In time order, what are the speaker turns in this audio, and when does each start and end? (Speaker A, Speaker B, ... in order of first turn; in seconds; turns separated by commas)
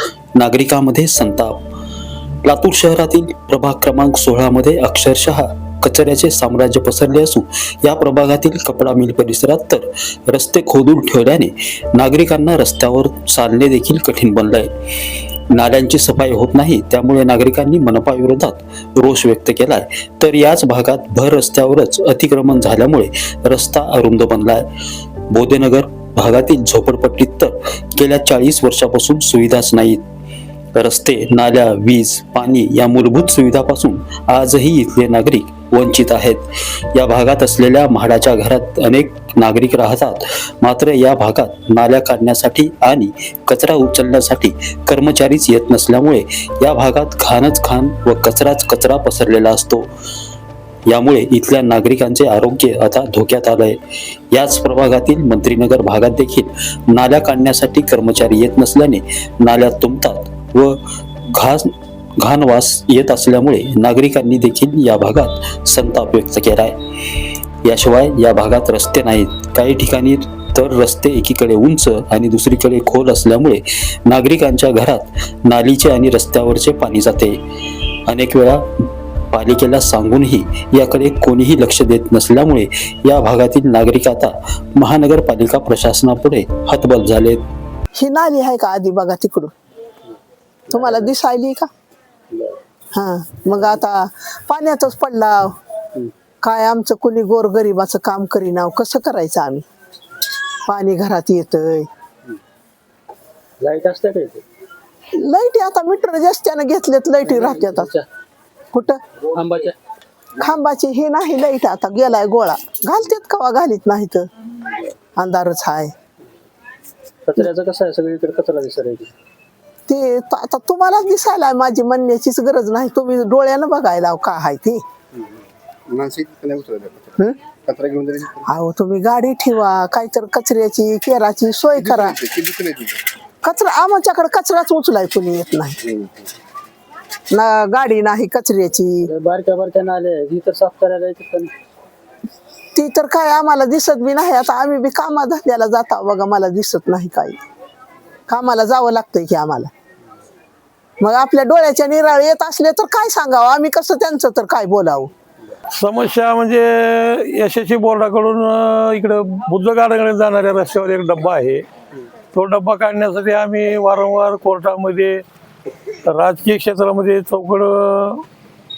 Speaker A: 0.4-1.4, Speaker A: 2.5-9.7, Speaker A: 10.3-11.4, Speaker A: 12.0-14.6, Speaker A: 15.6-24.5, Speaker A: 25.3-27.4, Speaker A: 28.0-29.9, Speaker A: 30.8-36.3, Speaker A: 37.0-40.1, Speaker A: 40.6-49.8, Speaker A: 50.9-53.7, Speaker A: 54.4-60.6, Speaker A: 62.2-66.7, Speaker A: 67.7-73.6, Speaker A: 74.1-77.3, Speaker A: 78.1-78.5, Speaker A: 79.3-84.2, Speaker A: 84.8-87.3, Speaker B: 88.0-89.5, Speaker B: 90.7-91.7, Speaker B: 92.9-95.5, Speaker B: 96.4-99.6, Speaker B: 100.7-101.9, Speaker C: 103.6-104.4, Speaker B: 105.2-107.9, Speaker B: 108.7-109.0, Speaker C: 109.4-109.7, Speaker B: 110.4-114.3, Speaker B: 115.2-115.9, Speaker C: 117.3-119.1, Speaker B: 119.9-124.8, Speaker D: 125.9-127.1, Speaker D: 127.7-128.3, Speaker B: 128.5-132.2, Speaker D: 131.9-132.9, Speaker B: 133.4-136.0, Speaker B: 137.3-139.1, Speaker C: 139.2-141.5, Speaker B: 142.8-147.4, Speaker B: 148.3-149.7, Speaker B: 151.0-155.1, Speaker E: 155.8-161.6, Speaker E: 162.3-165.2, Speaker E: 166.1-168.2